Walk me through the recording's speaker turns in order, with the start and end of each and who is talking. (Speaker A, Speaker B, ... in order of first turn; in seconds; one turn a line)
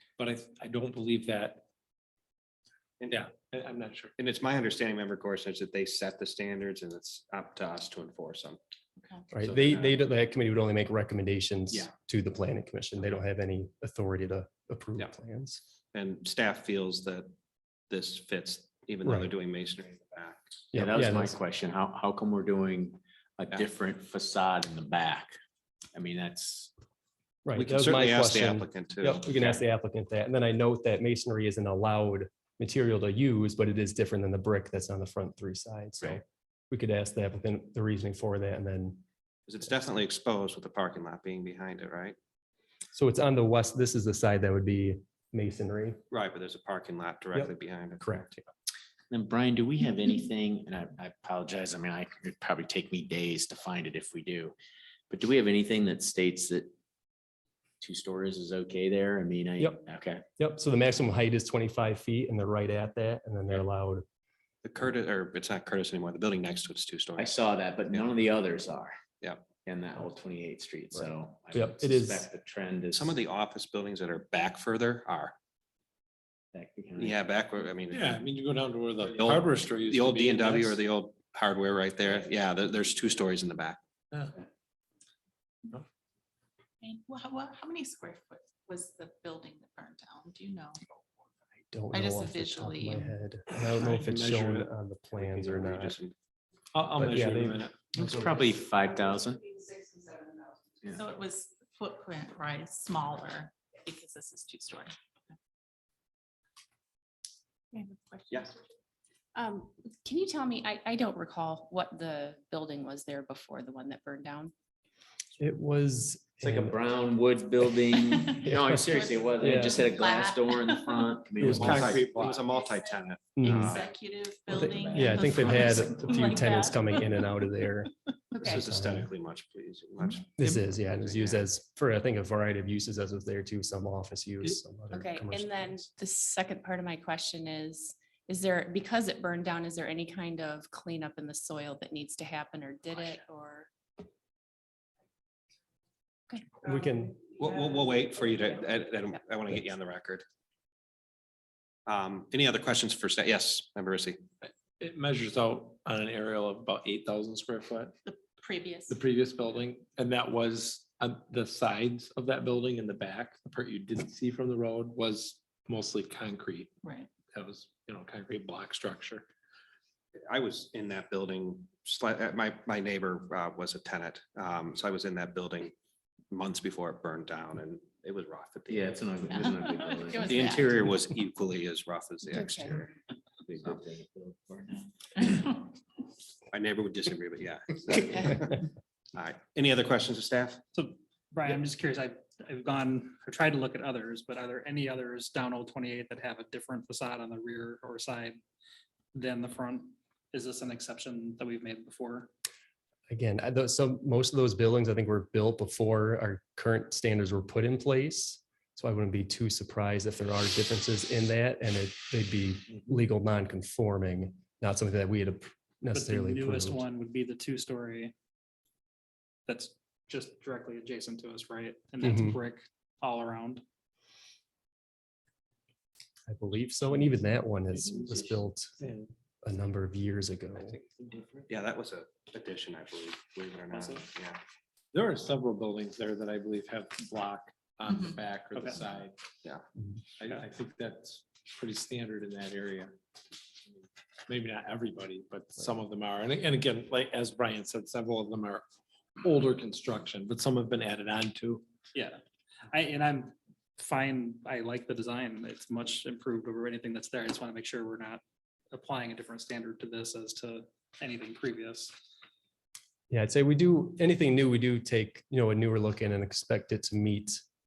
Speaker A: 0.2-1.7
Speaker B: 3.0-3.2
Speaker A: 3.1-4.1
Speaker B: 4.2-8.6
Speaker C: 9.0-9.2
Speaker D: 9.3-15.6
Speaker E: 9.4-9.9
Speaker B: 15.9-17.3
Speaker B: 17.9-20.6
Speaker D: 19.0-19.3
Speaker D: 20.7-21.4
Speaker E: 20.7-25.3
Speaker E: 25.9-26.7
Speaker D: 27.4-39.0
Speaker B: 27.6-29.6
Speaker B: 39.5-42.1
Speaker D: 42.9-46.0
Speaker B: 46.1-48.3
Speaker D: 47.3-48.4
Speaker E: 49.1-54.5
Speaker E: 55.1-56.7
Speaker E: 57.8-60.2
Speaker D: 60.4-64.0
Speaker B: 64.6-68.0
Speaker E: 67.2-69.0
Speaker B: 69.2-69.5
Speaker E: 69.5-73.2
Speaker D: 71.5-72.3
Speaker B: 72.9-75.3
Speaker E: 76.5-77.2
Speaker B: 77.0-78.2
Speaker A: 77.9-80.8
Speaker B: 79.1-83.8
Speaker C: 86.8-90.8
Speaker D: 91.7-96.0
Speaker C: 91.9-93.1
Speaker A: 93.8-94.7
Speaker B: 95.1-96.1
Speaker A: 96.7-98.0
Speaker D: 97.0-98.3
Speaker E: 97.9-99.5
Speaker C: 100.9-104.9
Speaker C: 107.7-108.7
Speaker F: 109.3-114.5
Speaker D: 115.4-116.8
Speaker E: 116.4-122.2
Speaker D: 117.9-119.9
Speaker C: 118.3-121.2
Speaker D: 121.4-121.8
Speaker A: 121.4-122.4
Speaker B: 121.6-123.9
Speaker D: 123.3-123.8
Speaker C: 123.4-127.1
Speaker D: 124.5-127.9
Speaker E: 124.7-125.0
Speaker F: 128.3-128.7
Speaker B: 128.4-131.4
Speaker D: 128.5-129.1
Speaker D: 130.4-135.8
Speaker F: 134.9-143.7
Speaker D: 146.6-147.2
Speaker B: 147.3-150.2
Speaker B: 151.9-154.2
Speaker A: 154.4-157.9
Speaker C: 158.1-159.0
Speaker A: 158.9-166.7
Speaker C: 166.8-167.1
Speaker A: 167.3-169.3
Speaker B: 170.3-175.7
Speaker B: 176.3-179.5
Speaker E: 178.7-180.8
Speaker C: 179.3-180.7
Speaker B: 180.3-182.9
Speaker F: 182.3-182.8
Speaker E: 183.4-184.9
Speaker C: 185.3-185.7
Speaker B: 186.5-190.6
Speaker G: 190.7-198.4
Speaker G: 199.1-202.3
Speaker D: 203.1-216.8
Speaker G: 215.9-218.1
Speaker G: 219.5-223.6
Speaker D: 222.0-222.4
Speaker D: 226.3-228.7
Speaker A: 228.8-229.1
Speaker D: 229.4-230.8
Speaker B: 230.7-234.4
Speaker A: 234.9-239.2
Speaker G: 238.5-238.8
Speaker A: 240.2-243.0
Speaker A: 244.3-248.6
Speaker A: 249.2-251.6
Speaker G: 251.9-258.2
Speaker G: 258.7-261.9
Speaker D: 263.1-267.4